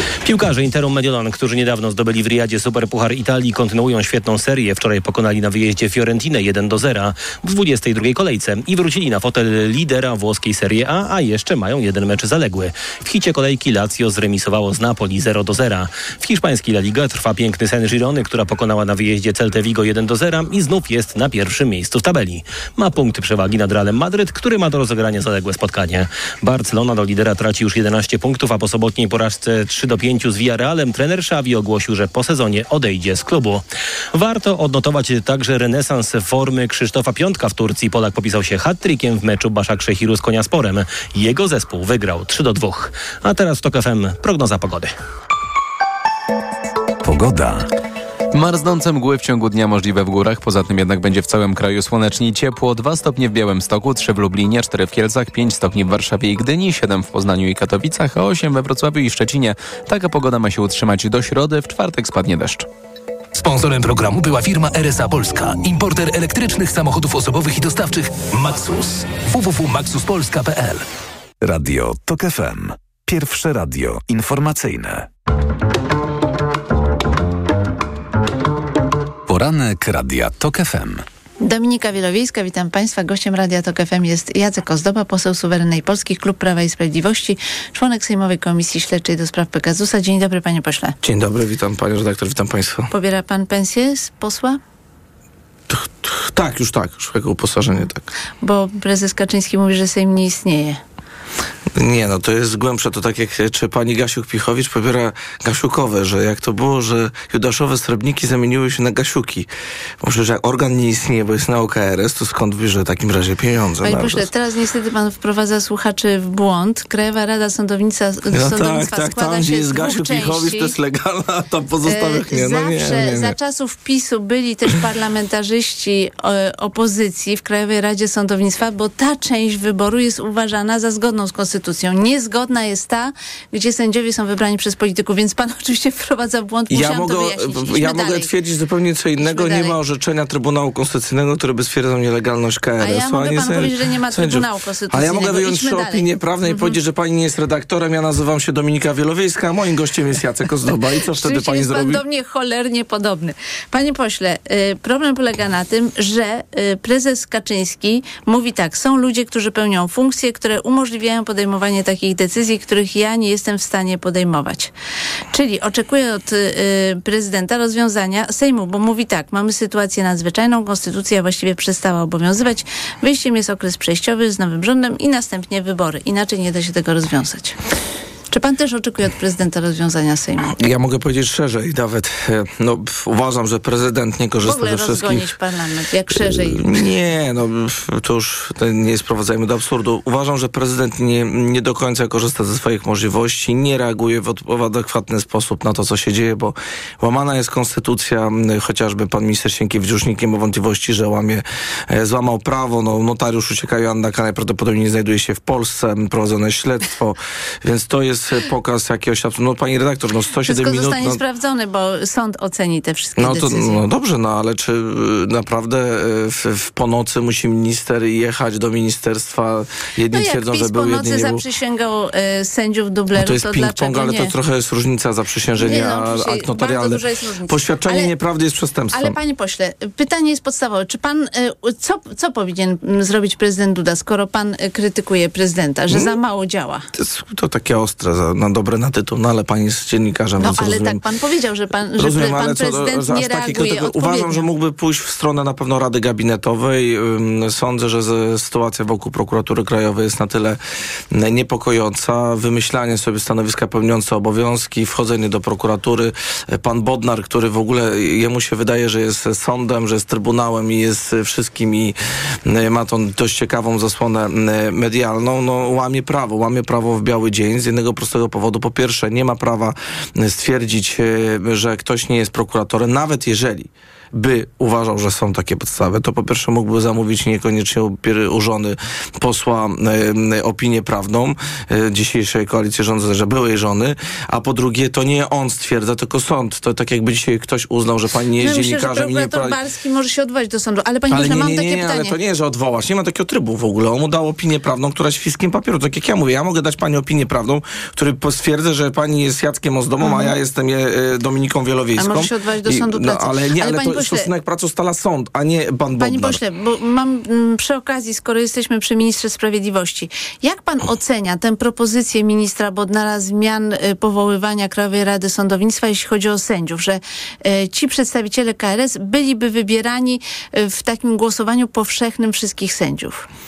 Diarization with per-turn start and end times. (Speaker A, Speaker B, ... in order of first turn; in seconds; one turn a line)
Speaker A: 0.2-44.9
Speaker B: 47.0-47.7
Speaker C: 48.3-62.7
Speaker D: 63.4-70.8
Speaker B: 71.4-75.1
Speaker B: 79.3-81.0
Speaker E: 81.4-91.0
Speaker F: 91.0-92.9
Speaker E: 92.9-94.6
Speaker F: 95.7-98.0
Speaker E: 98.4-100.8
Speaker F: 101.8-109.5
Speaker F: 110.0-114.3
Speaker E: 113.8-120.7
Speaker F: 118.3-123.4
Speaker E: 121.9-138.3
Speaker F: 136.7-152.0
Speaker E: 139.2-139.8
Speaker E: 142.8-146.8
Speaker E: 151.2-164.7
Speaker E: 165.3-177.6
Speaker E: 178.3-180.5
Speaker F: 180.5-185.4
Speaker E: 184.4-186.6
Speaker F: 186.1-211.2
Speaker E: 210.5-213.8
Speaker F: 213.2-221.4
Speaker E: 220.1-224.3
Speaker F: 223.1-229.2
Speaker E: 225.6-228.1
Speaker E: 228.9-236.9
Speaker F: 235.9-236.2
Speaker F: 236.9-241.0
Speaker E: 240.4-244.5
Speaker F: 242.0-250.6
Speaker F: 251.1-289.6
Speaker E: 288.4-292.2
Speaker F: 291.1-306.4
Speaker E: 300.0-300.3
Speaker E: 302.0-304.3
Speaker E: 306.0-323.3